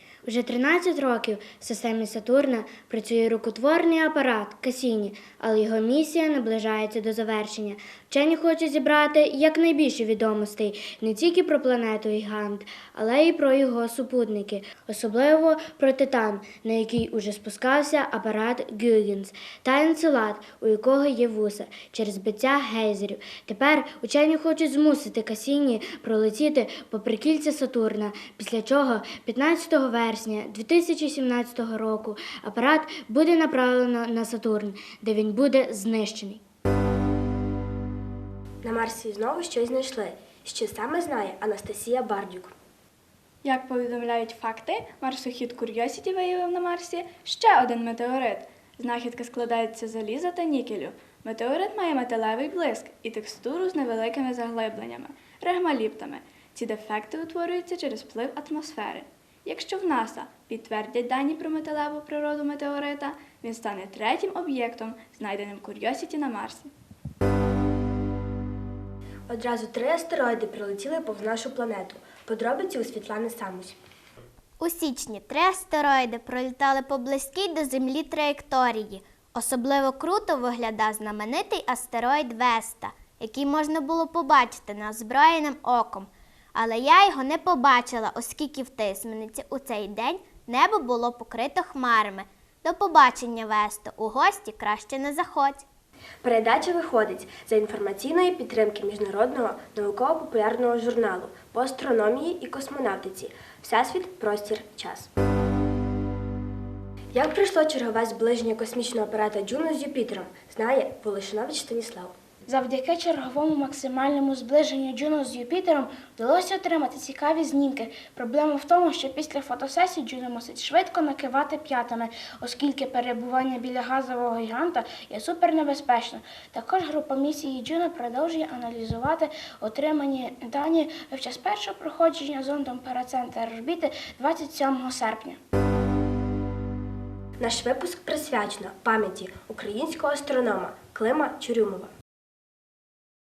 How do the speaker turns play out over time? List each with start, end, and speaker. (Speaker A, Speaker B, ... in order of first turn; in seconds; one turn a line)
Speaker A: 0.2-36.4
Speaker B: 38.6-42.5
Speaker C: 43.4-66.7
Speaker B: 69.3-73.8
Speaker D: 74.6-95.6
Speaker B: 96.2-105.1
Speaker B: 107.1-112.1
Speaker E: 112.5-135.4
Speaker B: 137.4-141.9